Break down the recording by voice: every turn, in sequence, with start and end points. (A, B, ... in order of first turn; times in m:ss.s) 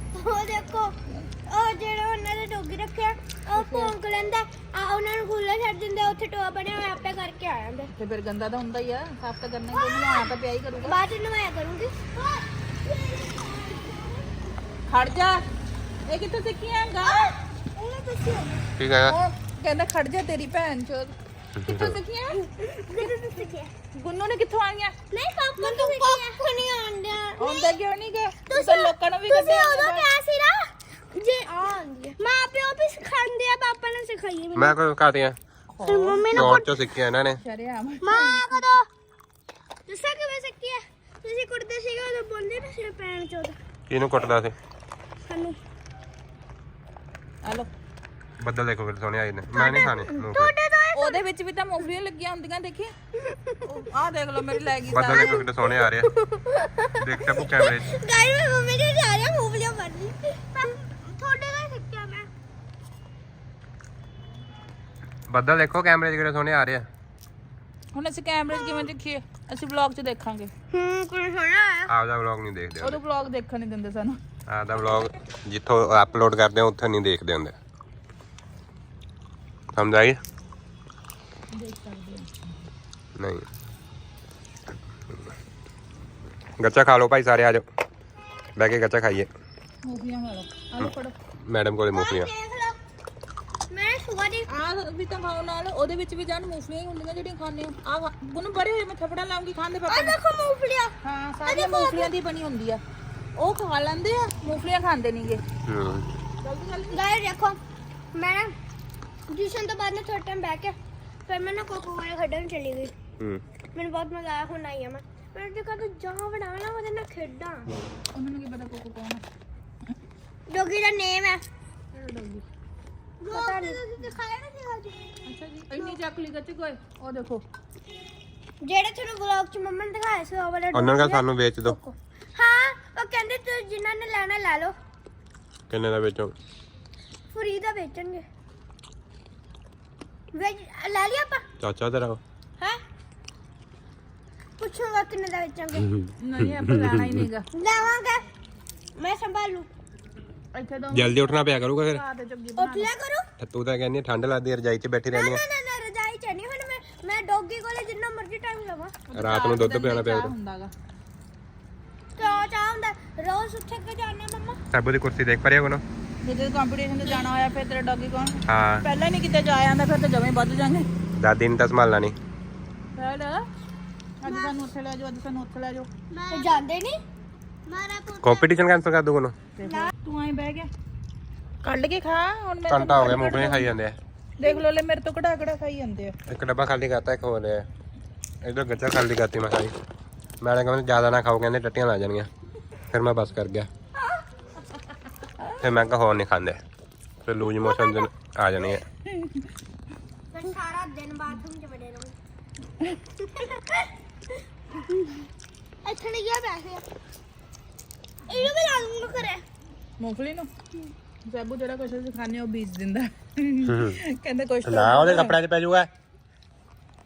0:00.1-0:07.9 A
0:03.5-0:03.9 B
0:07.9-0:11.0 B
0:09.7-0:10.3 A
0:10.8-0:14.3 A
0:14.9-0:15.4 B
0:16.1-0:17.4 B
0:17.0-0:18.6 A
0:18.8-0:19.2 C
0:19.0-0:21.1 B
0:21.6-0:22.0 C
0:21.6-0:22.4 B
0:22.4-0:23.7 A
0:24.0-0:24.9 B
0:25.1-0:27.8 A
0:25.6-0:26.3 B
0:27.4-0:30.1 B
0:28.5-0:34.8 A
0:34.5-0:35.4 C
0:35.7-0:36.6 B
0:35.8-0:36.7 A
0:36.3-0:37.4 C
0:37.4-0:38.6 B
0:38.0-0:38.9 A
0:39.9-0:43.6 A
0:43.9-0:44.5 C
0:45.2-0:45.6 A
0:47.4-0:47.7 B
0:48.4-0:50.5 C
0:49.6-0:49.9 B
0:49.7-0:51.2 A
0:50.9-0:52.9 B
0:53.2-0:53.7 A
0:53.6-0:55.4 B
0:54.9-0:56.1 C
0:55.1-1:02.3 A
0:57.0-0:57.9 C
1:05.3-1:06.9 C
1:07.9-1:10.5 B
1:10.7-1:11.9 A
1:11.9-1:13.0 C
1:12.8-1:14.2 B
1:14.5-1:17.6 C
1:19.7-1:20.2 C
1:21.5-1:22.3 B
1:23.2-1:23.4 C
1:26.6-1:27.6 C
1:28.6-1:29.3 C
1:29.9-1:31.1 B
1:31.4-1:32.3 C
1:31.9-1:32.8 A
1:33.7-1:34.5 A
1:34.5-1:40.2 B
1:39.9-1:40.9 A
1:41.0-1:42.8 B
1:41.4-1:42.1 A
1:43.4-1:45.4 B
1:45.6-1:46.1 C
1:46.4-1:47.0 B
1:46.9-1:47.6 A
1:48.1-1:48.5 A
1:49.3-1:52.9 A
1:53.2-1:53.4 C
1:53.7-1:57.7 A
1:58.1-1:59.2 B
2:00.5-2:01.4 A
2:01.9-2:02.4 B
2:03.2-2:05.1 A
2:03.3-2:04.0 B
2:05.2-2:07.4 B
2:08.6-2:14.7 A
2:10.7-2:11.8 C
2:15.7-2:16.3 C
2:17.3-2:18.2 A
2:20.3-2:21.4 A
2:21.6-2:22.2 C
2:24.6-2:25.9 A
2:26.0-2:27.2 C
2:26.2-2:27.5 B
2:27.5-2:28.2 A
2:29.0-2:29.7 A
2:30.6-2:31.3 B
2:30.9-2:32.0 C
2:31.9-2:32.9 B
2:32.6-2:33.2 A
2:33.4-2:35.4 C
2:35.1-2:39.0 A
2:39.1-2:40.7 B
2:39.1-2:40.3 C
2:42.2-2:44.6 A
2:42.2-2:42.4 B
2:44.7-2:45.8 C
2:46.2-2:50.9 B
2:47.0-2:47.3 A
2:48.5-2:48.8 C
2:51.1-2:52.2 C
2:53.0-2:53.4 B
2:54.2-2:56.5 B
2:54.2-2:54.5 A
2:56.1-2:57.0 A
2:57.6-2:58.5 A
2:58.2-2:59.3 C
2:59.6-3:00.7 B
2:59.6-2:59.9 A
3:01.6-3:03.7 B
3:02.7-3:04.0 C
3:04.4-3:06.1 B
3:06.3-3:07.7 C
3:08.4-3:09.7 C
3:10.4-3:12.3 C
3:12.9-3:13.7 C
3:15.6-3:16.6 C
3:17.2-3:18.8 C
3:17.6-3:18.1 A
3:20.3-3:22.2 A
3:23.4-3:23.8 A
3:25.8-3:26.8 A
3:28.3-3:29.4 A
3:30.0-3:30.5 B
3:31.3-3:35.3 B
3:33.6-3:34.0 C
3:34.6-3:35.9 C